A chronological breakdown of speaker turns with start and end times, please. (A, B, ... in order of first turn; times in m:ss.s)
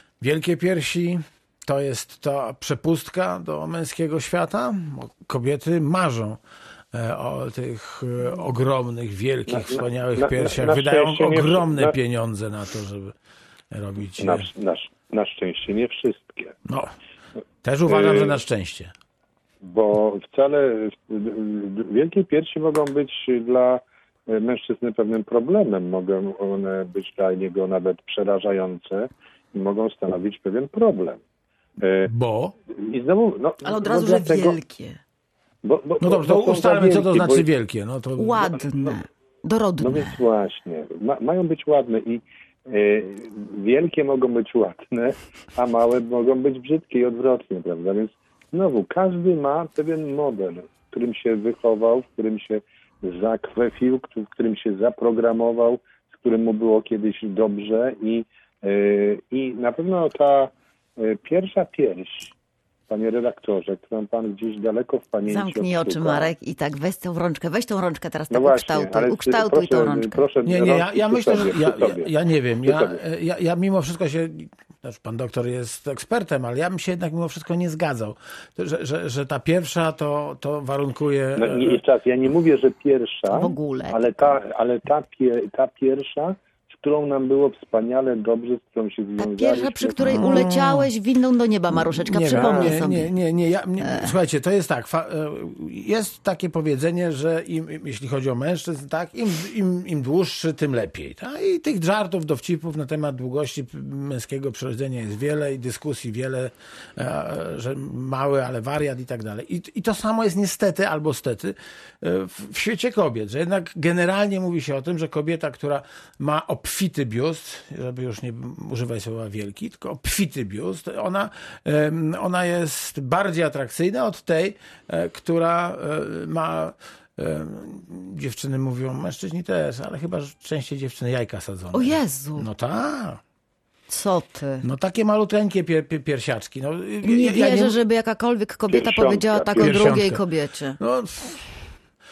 0:00.2-0:06.4 A
0:06.9-0:13.2 A
0:09.5-0:12.0 B
0:13.7-0:14.5 A
0:14.2-0:16.6 B
0:16.6-0:16.9 A
0:17.6-0:18.9 A
0:17.9-0:18.4 B
0:19.6-0:31.2 B
0:31.8-0:32.1 B
0:32.1-0:32.5 A
0:32.7-0:34.6 B
0:33.6-0:35.0 C
0:35.6-0:37.5 B
0:36.0-0:38.6 A
0:38.2-0:40.2 C
0:39.8-1:02.3 B
1:02.9-1:06.3 B
1:05.3-1:10.2 C
1:08.3-1:12.1 B
1:10.4-1:21.8 A
1:12.6-1:13.0 B
1:21.4-1:30.5 B
1:23.3-1:24.3 C
1:29.2-1:33.1 C
1:30.0-1:30.9 A
1:31.7-2:13.2 A
1:32.3-1:32.8 B
1:33.8-1:34.2 C
2:11.7-2:12.5 C
2:13.9-2:14.6 C
2:14.6-2:17.8 A
2:17.0-2:20.8 C
2:18.7-2:20.0 B
2:19.6-2:20.2 A
2:20.8-2:21.7 A